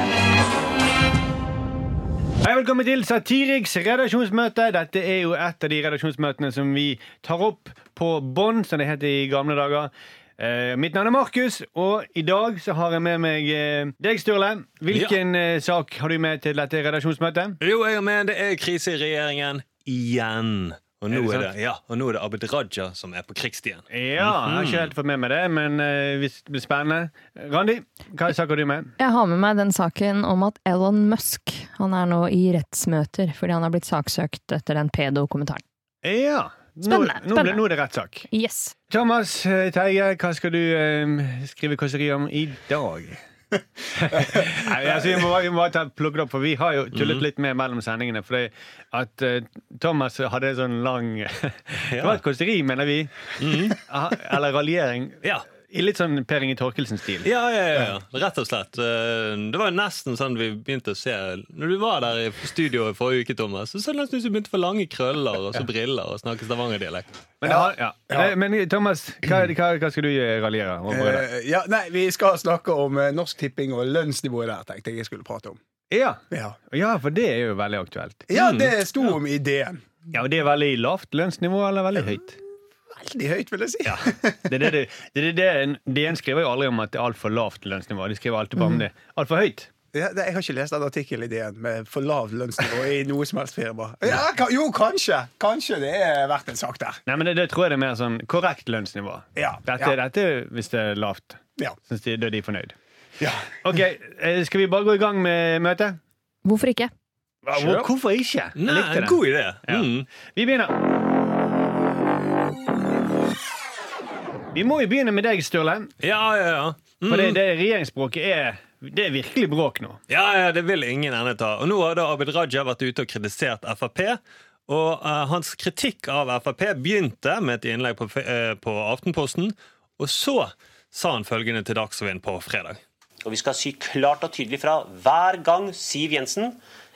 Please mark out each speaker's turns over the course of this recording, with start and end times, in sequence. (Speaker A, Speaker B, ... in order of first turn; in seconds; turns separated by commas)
Speaker A: 2.4-17.6, Speaker B: 14.9-15.2, Speaker B: 17.6-24.9, Speaker A: 21.1-21.5, Speaker A: 23.9-28.9, Speaker C: 29.0-35.6, Speaker A: 36.0-38.3, Speaker C: 36.8-37.6, Speaker C: 38.3-38.7, Speaker A: 38.9-43.2, Speaker A: 43.9-57.3, Speaker D: 44.1-45.2, Speaker B: 46.9-47.2, Speaker B: 51.9-52.2, Speaker B: 53.4-53.8, Speaker B: 57.2-67.1, Speaker A: 67.4-71.2, Speaker D: 67.4-68.3, Speaker D: 70.9-75.6, Speaker A: 75.9-78.3, Speaker D: 76.3-76.6, Speaker D: 78.3-79.8, Speaker B: 78.3-78.7, Speaker A: 80.1-82.4, Speaker D: 82.9-84.7, Speaker A: 83.8-89.7, Speaker D: 89.9-97.0, Speaker A: 97.0-102.7, Speaker D: 99.3-100.0, Speaker D: 103.2-103.6, Speaker A: 103.6-106.0, Speaker C: 106.4-106.9, Speaker A: 107.4-110.8, Speaker B: 108.5-110.1, Speaker A: 114.5-115.9, Speaker B: 116.0-117.4, Speaker A: 117.1-120.0, Speaker B: 120.1-132.8, Speaker E: 133.2-136.6